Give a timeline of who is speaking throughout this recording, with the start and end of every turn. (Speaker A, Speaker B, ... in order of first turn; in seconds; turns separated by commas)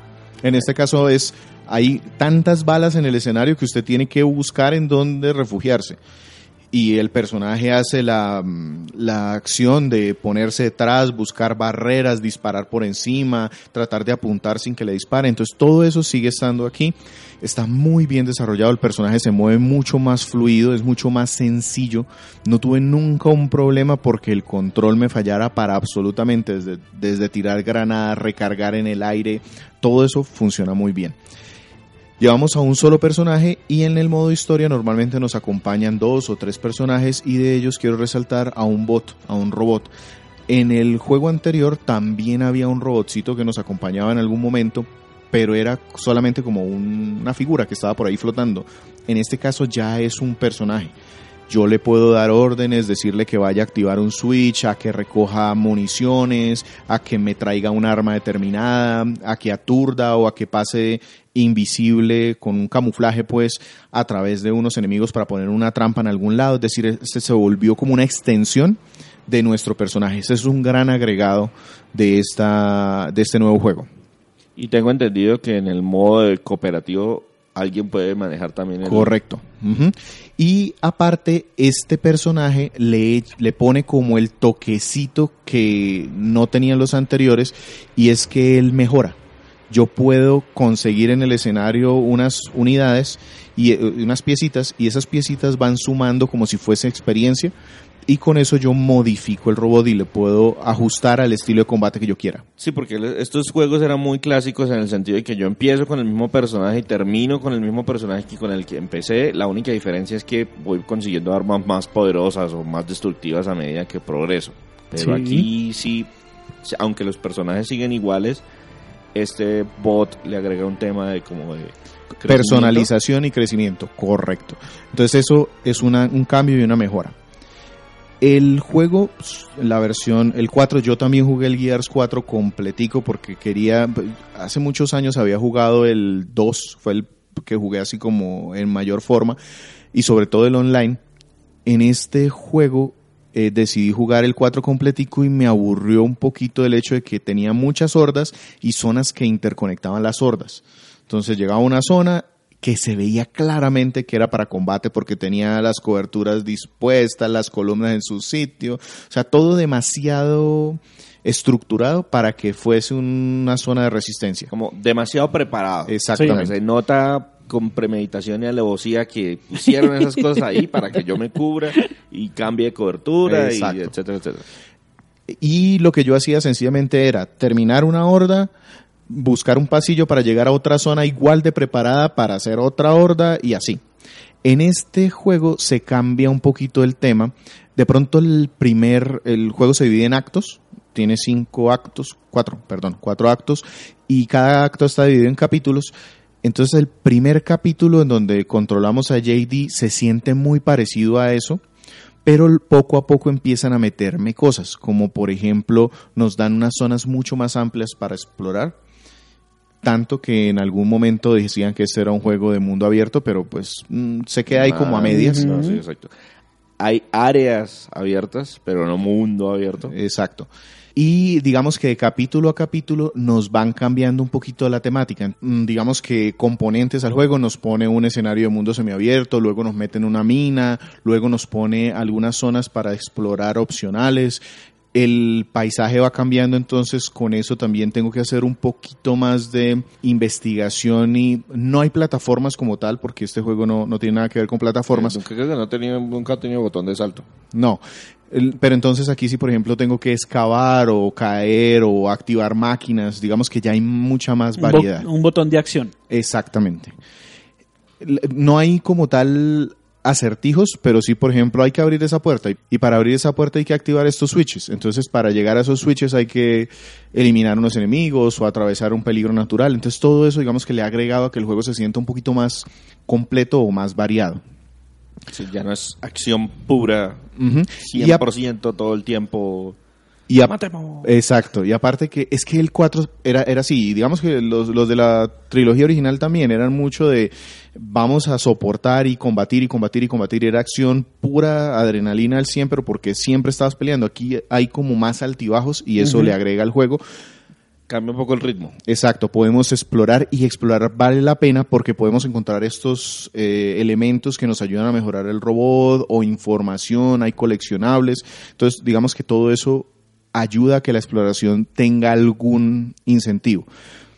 Speaker A: 0.4-6.0, Speaker A: 6.7-31.2, Speaker A: 32.2-39.9, Speaker A: 40.5-50.9, Speaker A: 51.5-73.9, Speaker B: 74.6-79.1, Speaker A: 78.8-89.2, Speaker A: 89.7-97.5, Speaker A: 98.1-102.5, Speaker B: 102.6-116.1, Speaker C: 115.0-115.5, Speaker B: 116.6-118.4, Speaker B: 119.2-122.9, Speaker A: 122.2-127.2, Speaker A: 128.2-139.4, Speaker A: 139.9-141.0, Speaker A: 141.7-164.5, Speaker B: 164.5-174.4, Speaker A: 165.9-166.6, Speaker A: 173.3-173.9, Speaker A: 175.3-178.5, Speaker A: 179.1-183.8, Speaker A: 184.4-195.9, Speaker A: 196.4-201.6, Speaker A: 202.2-208.8, Speaker A: 209.8-215.6, Speaker B: 214.5-216.1, Speaker C: 215.1-215.8, Speaker B: 216.8-219.9, Speaker A: 219.9-234.4, Speaker A: 234.9-245.2, Speaker B: 244.9-247.2, Speaker A: 247.5-255.1, Speaker C: 254.6-255.9, Speaker A: 256.1-256.9, Speaker A: 258.0-274.4, Speaker B: 275.3-277.2, Speaker A: 277.4-278.2, Speaker B: 277.8-279.8, Speaker A: 280.3-297.0, Speaker B: 280.4-281.1, Speaker C: 296.0-296.4, Speaker B: 297.9-298.8, Speaker A: 298.9-313.7